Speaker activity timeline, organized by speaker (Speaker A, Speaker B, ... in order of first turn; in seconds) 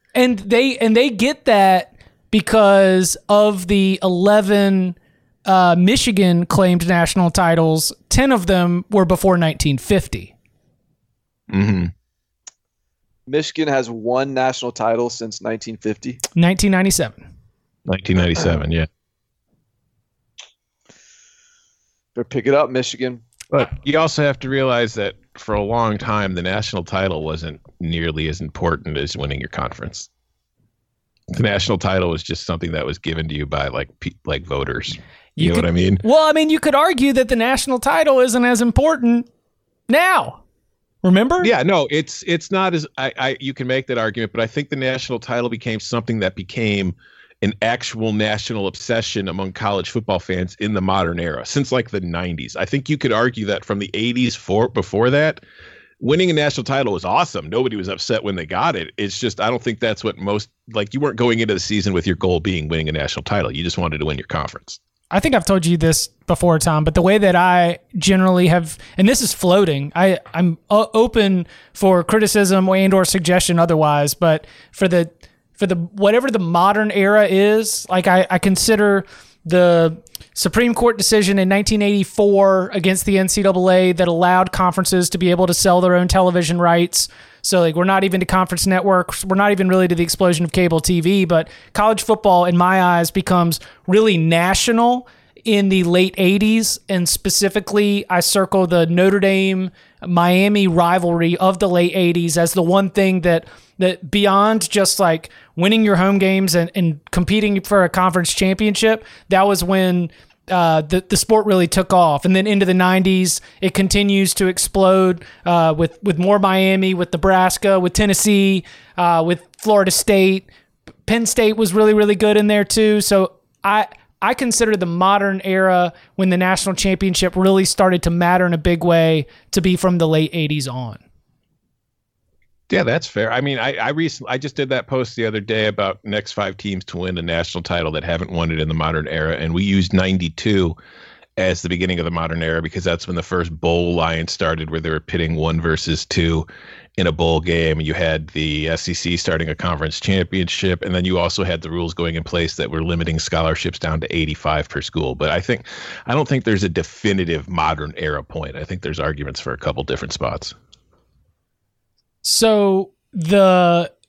Speaker A: 0.1-10.3, 16.4-17.2, 35.4-39.3, 39.9-40.4, 41.0-41.5, 65.1-120.5, 121.0-131.0, 162.2-163.9
Speaker B: 11.5-11.9, 17.9-18.9, 23.5-30.1, 31.3-36.0, 41.4-55.4, 56.0-64.8, 132.7-140.8, 141.4-160.5
Speaker C: 13.3-16.2, 22.1-23.2